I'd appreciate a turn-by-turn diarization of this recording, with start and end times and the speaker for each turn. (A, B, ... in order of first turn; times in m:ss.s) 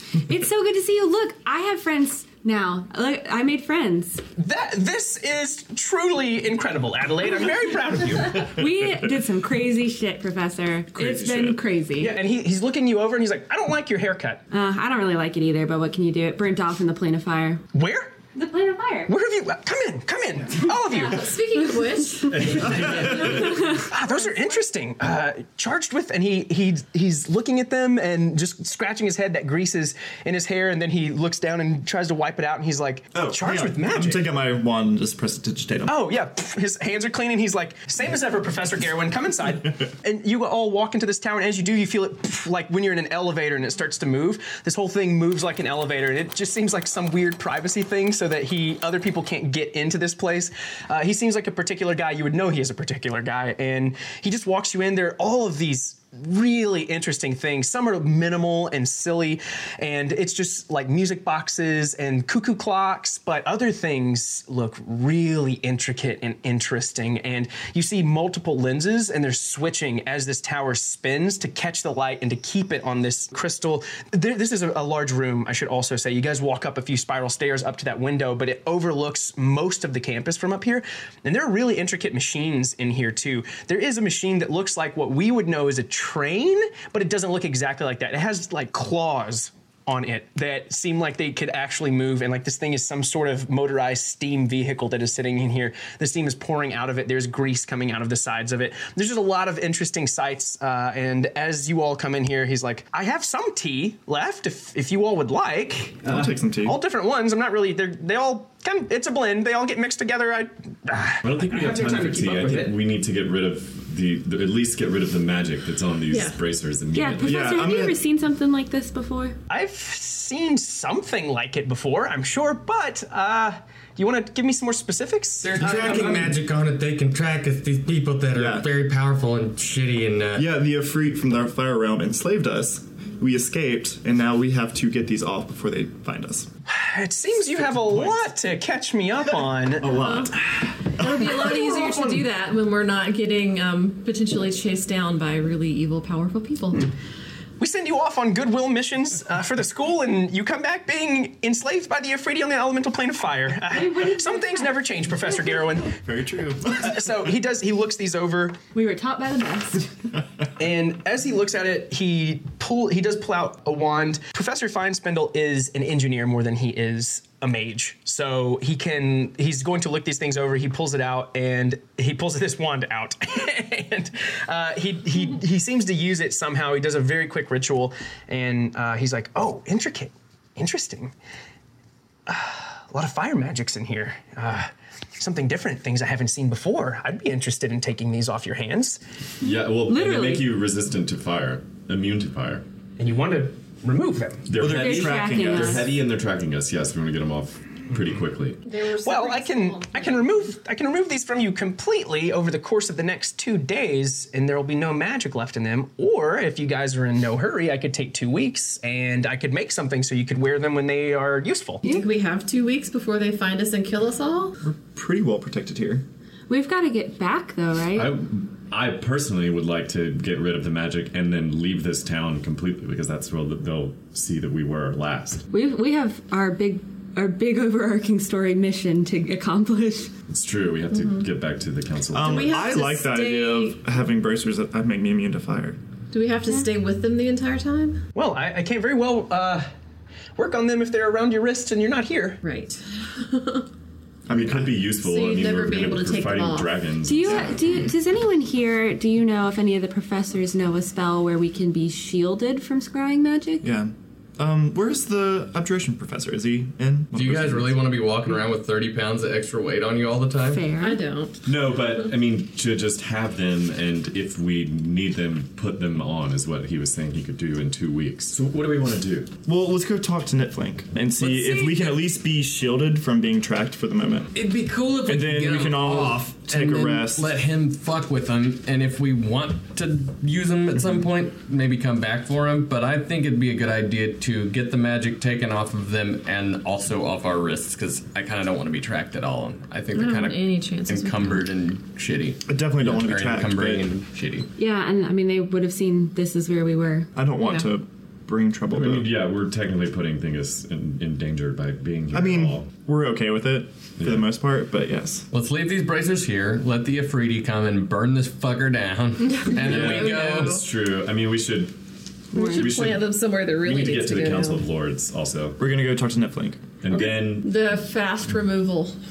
0:00.2-0:04.2 A
0:04.4-0:08.5 B
0:08.3-0:12.2 A
0:10.9-0:11.6 C
0:12.0-0:14.4 B
0:14.5-0:17.6 A
0:17.7-0:18.1 B
0:18.3-0:19.1 A
0:19.1-0:21.3 B
0:20.9-0:23.8 D
0:22.6-0:23.3 E
0:23.7-0:34.2 B
0:33.1-0:36.0 C
0:35.9-1:52.8 B
1:46.0-1:46.8 C
1:51.2-1:57.5 E
1:56.1-1:56.4 D
1:56.9-1:59.4 A
1:57.2-1:58.0 C
1:59.5-2:06.2 B
2:05.4-2:10.4 F
2:08.3-2:08.7 C
2:10.3-2:16.5 C
2:16.7-2:20.0 B
2:17.7-2:18.2 C
2:19.8-2:20.4 C
2:19.9-2:20.3 D
2:20.9-2:26.9 D
2:21.0-2:21.3 C
2:21.2-2:22.2 B
2:27.6-2:35.9 B
2:33.7-2:35.6 A
2:36.0-2:37.2 C
2:36.7-2:38.6 B
2:38.7-2:39.9 A
2:40.6-3:01.1 B
3:02.3-3:09.0 B
3:09.4-3:12.6 E
3:09.8-3:10.6 A
3:13.0-3:14.5 B
3:14.5-3:18.6 E
3:14.5-3:15.9 C
3:14.6-3:15.9 A
3:18.6-3:20.5 D
3:19.0-3:31.8 B
3:31.8-3:34.6 D
3:34.6-3:36.0 C
3:36.5-3:38.1 A
3:37.9-3:45.4 E
3:45.5-3:50.1 A
3:50.3-3:52.5 E
3:50.9-3:51.2 D
3:52.1-3:55.8 C
3:52.2-3:53.9 D
3:56.1-3:58.0 D
3:58.1-3:59.7 B
4:00.4-4:02.4 B
4:02.4-4:03.7 D
4:04.3-4:04.8 C
4:04.3-4:07.6 E
4:05.0-4:06.8 D
4:07.0-4:13.7 A
4:07.3-4:07.6 C
4:13.6-4:17.8 C
4:17.1-4:20.6 F
4:20.5-4:21.0 A
4:20.8-4:21.8 D
4:21.4-4:29.3 E
4:29.4-4:34.3 C
4:31.2-4:32.0 F
4:34.3-4:54.5 F
4:35.0-4:37.3 C
4:40.8-4:41.0 C
4:49.9-4:51.4 D
4:52.4-4:53.9 C
4:54.6-4:57.1 A
4:57.1-4:59.1 C
4:57.4-4:57.7 D
4:58.7-5:02.7 E
5:02.1-5:05.3 C
5:04.0-5:04.3 E
5:05.3-5:10.6 F
5:09.2-5:10.7 D
5:09.6-5:11.7 E
5:12.3-5:12.7 A
5:12.3-5:14.7 D
5:12.4-5:15.6 E
5:15.6-5:16.8 C
5:16.8-5:17.6 E
5:16.9-5:19.0 D